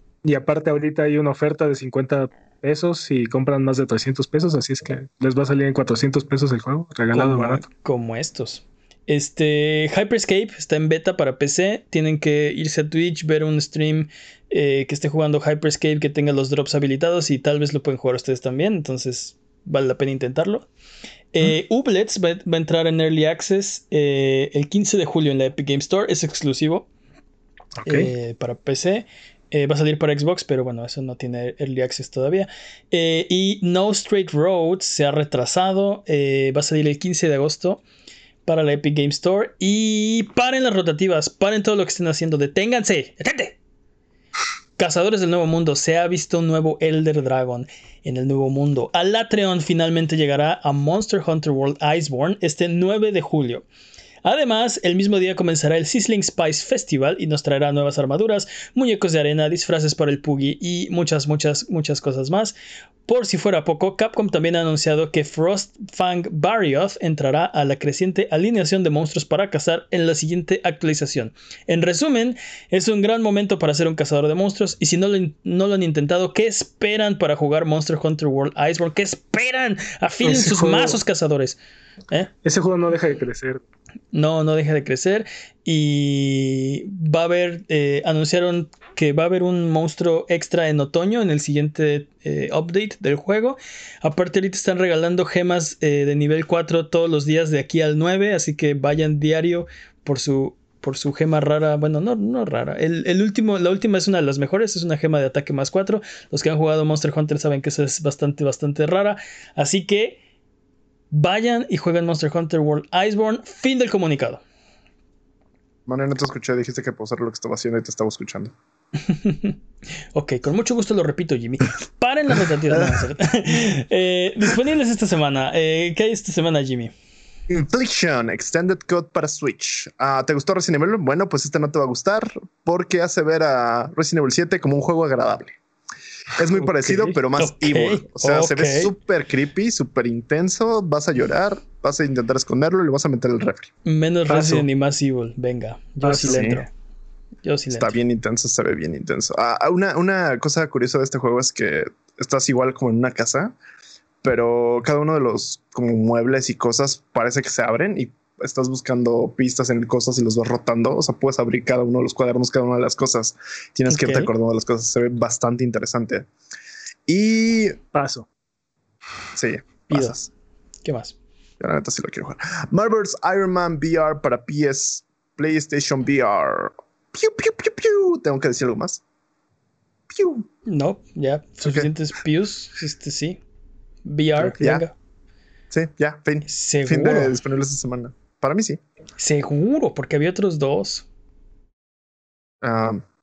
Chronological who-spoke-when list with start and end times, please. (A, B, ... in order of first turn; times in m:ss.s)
0:00.2-0:07.6 A
0:07.1-0:20.7 B
0:21.3-0:26.9 B
0:27.8-0:28.1 A
0:27.8-0:37.8 B
0:38.4-0:43.6 B
0:44.8-0:53.6 B
0:54.2-1:02.5 B
1:03.0-1:22.3 B
1:20.2-1:21.0 A
1:22.4-1:23.6 A
1:24.1-1:50.2 B
1:51.1-1:54.4 B
1:55.9-1:58.5 C
1:59.0-1:59.6 B
2:00.1-2:06.9 B
2:07.5-2:15.6 C
2:16.4-2:23.7 C
2:16.6-2:17.2 A
2:17.4-2:18.9 B
2:23.8-2:26.7 B
2:24.3-2:24.6 C
2:26.0-2:26.6 A
2:26.2-2:26.6 C
2:27.4-2:27.9 B
2:27.7-2:33.5 C
2:34.2-2:46.3 C
2:43.9-2:44.3 B
2:47.1-2:47.8 C
2:47.9-2:48.3 A
2:49.3-2:50.3 C
2:49.9-2:50.2 B
2:50.8-2:51.2 B
2:51.6-2:59.0 C
3:00.1-3:00.5 C
3:00.6-3:03.4 B
3:01.6-3:01.9 C
3:04.0-3:04.9 B
3:04.4-3:04.8 C
3:05.7-3:08.8 C
3:06.4-3:07.4 B
3:09.2-3:11.0 B
3:12.6-3:13.0 C